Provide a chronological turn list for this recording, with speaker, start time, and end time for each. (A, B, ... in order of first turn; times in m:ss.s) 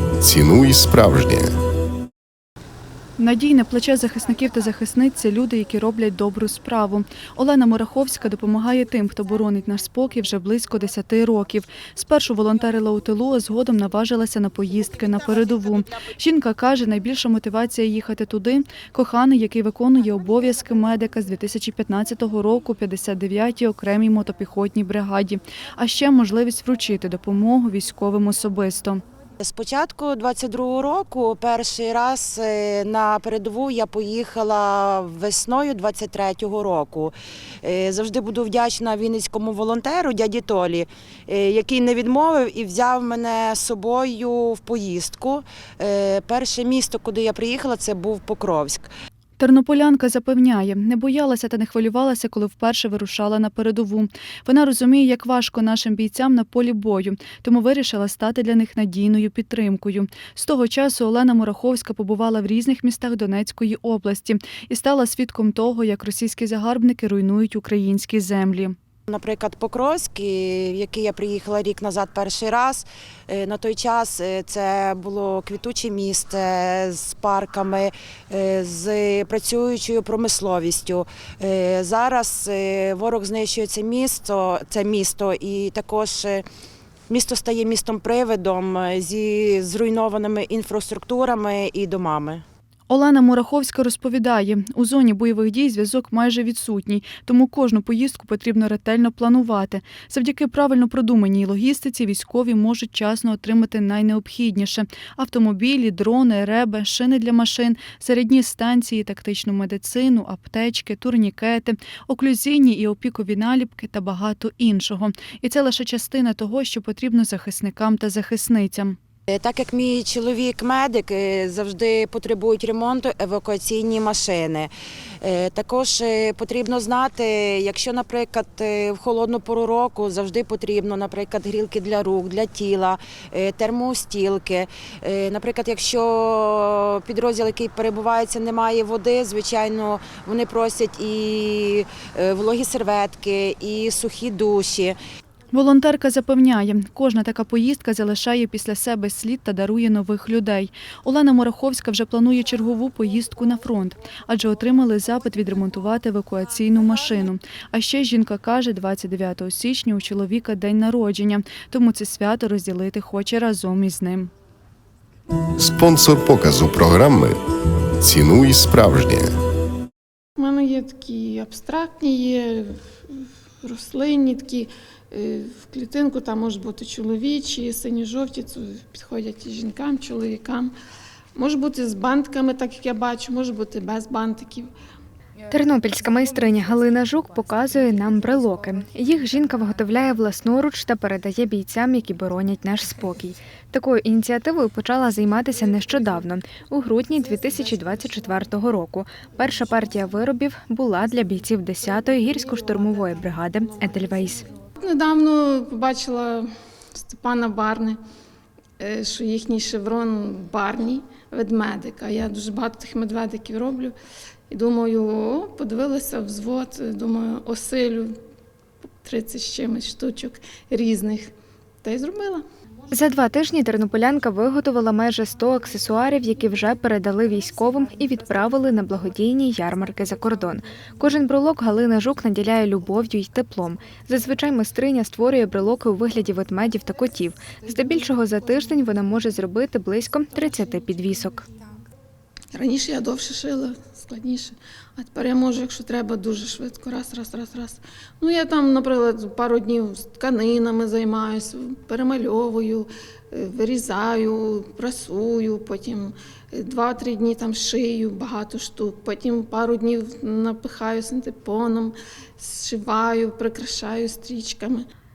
0:00.2-0:01.5 A
0:03.2-0:29.0 B
0:29.4-0:48.9 C
0:49.4-1:08.7 B
1:09.1-1:26.4 C
1:27.1-1:32.4 C
1:32.9-1:59.0 B
1:59.3-2:25.0 C
2:25.5-2:44.3 B
2:45.6-2:47.4 A
2:48.0-2:49.3 A
2:50.4-3:00.7 D
3:01.4-3:04.7 D
3:05.5-3:24.4 E
3:24.7-3:28.0 D
3:28.8-3:33.9 D
3:34.5-3:38.1 D
3:39.0-3:41.3 D
3:41.8-3:42.4 D
3:42.9-4:01.5 E
4:02.5-4:24.8 D